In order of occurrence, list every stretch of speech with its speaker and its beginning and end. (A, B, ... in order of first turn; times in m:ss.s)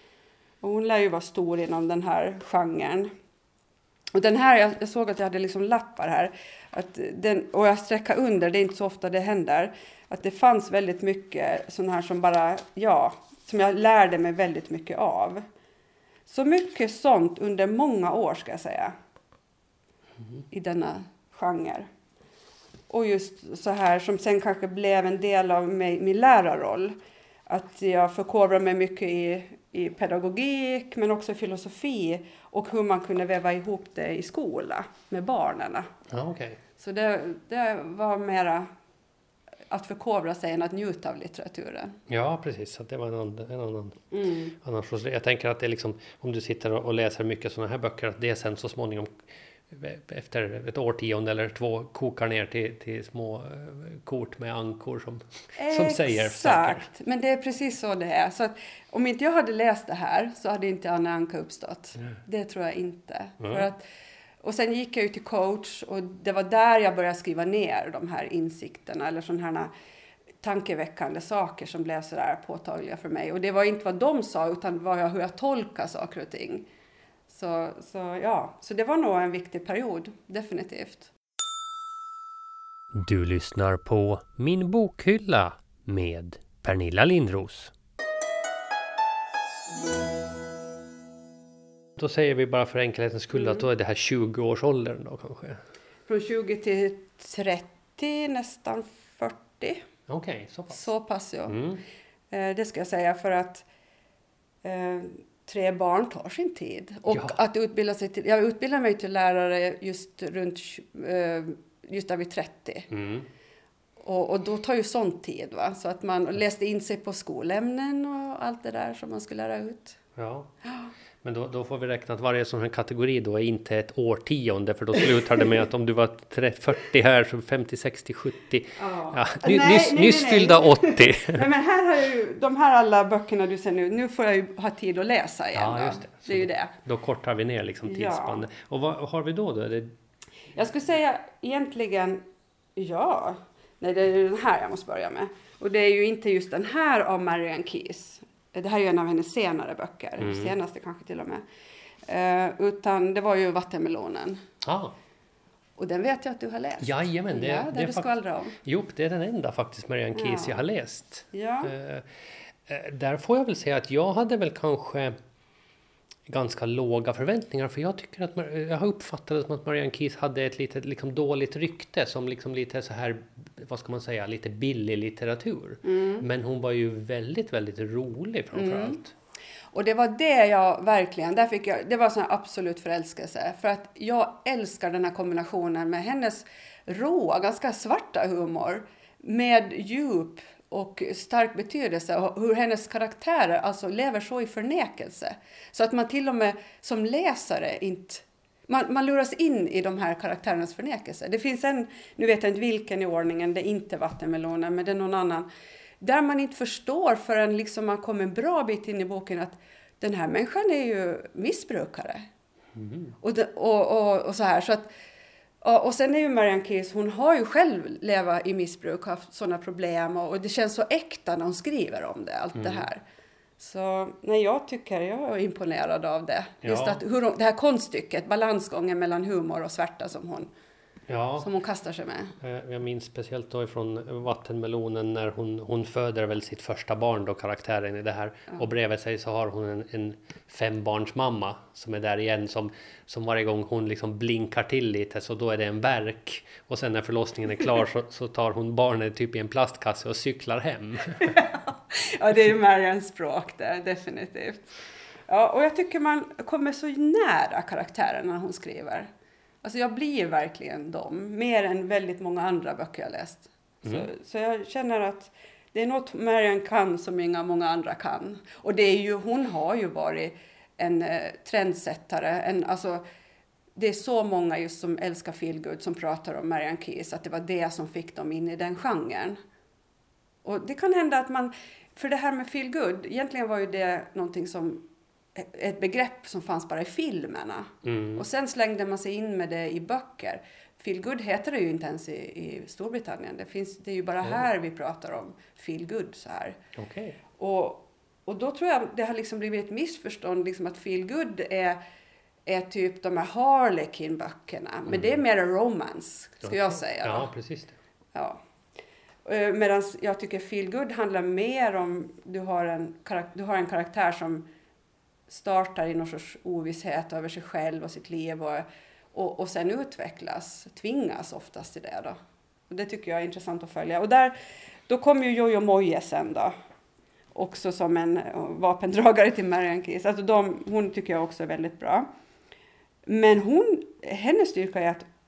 0:00.6-0:03.1 A
0:04.1-0:15.4 A
0:16.3-0:19.0 A
0:20.5-0:21.9 A
0:22.9-0:27.0 A
0:27.5-0:35.9 A
0:36.1-0:36.6 B
0:36.8-0:38.7 A
0:39.7-0:42.0 A
0:42.1-0:56.8 B
0:44.1-0:44.6 A
0:55.6-1:03.8 A
1:03.4-1:03.7 B
1:04.4-1:09.7 A
1:10.4-1:16.7 A
1:17.3-1:21.1 A
1:22.9-1:27.7 B
1:32.0-1:35.6 B
1:33.4-1:33.6 A
1:36.1-1:39.8 A
1:40.1-1:40.9 B
1:40.7-1:41.6 A
1:41.5-1:41.8 B
1:42.3-1:43.6 A
1:44.6-1:52.9 A
1:47.1-1:47.4 B
1:52.9-1:53.3 B
1:54.0-2:00.0 A
2:00.2-2:00.5 B
2:01.2-2:11.5 B
2:08.8-2:16.7 A
2:15.5-2:20.0 B
2:17.8-2:18.4 A
2:20.5-2:22.2 A
2:22.8-2:31.4 A
2:30.2-2:30.5 B
2:32.1-2:34.4 A
2:34.6-2:35.0 B
2:35.8-2:38.6 A
2:36.8-2:45.2 B
2:40.2-2:40.6 A
2:41.3-2:41.7 A
2:46.3-2:59.1 B
2:55.8-2:56.2 A
2:58.5-2:59.0 A
2:59.7-3:25.5 A
3:26.0-3:32.2 A
3:32.8-3:33.1 B
3:33.2-3:34.9 A
3:35.6-3:43.0 A
3:42.6-3:42.9 B
3:43.6-3:50.5 A
3:46.6-3:47.0 B
3:51.1-3:51.5 B
3:51.4-3:52.3 A
3:52.4-4:11.4 B
4:11.2-4:14.7 A
4:15.3-4:19.1 A
4:19.6-4:33.0 A
4:23.8-4:24.1 B
4:33.8-4:39.4 A
4:40.4-4:56.6 A
4:47.8-4:48.2 B
4:56.8-4:57.2 B
4:57.4-5:01.8 A
5:02.5-5:07.3 A
5:04.9-5:05.2 B
5:06.4-5:07.8 B
5:08.1-5:08.4 A
5:09.2-5:14.5 A
5:15.3-5:22.2 A
5:22.7-5:26.5 A
5:27.3-5:32.1 A
5:33.0-5:35.1 A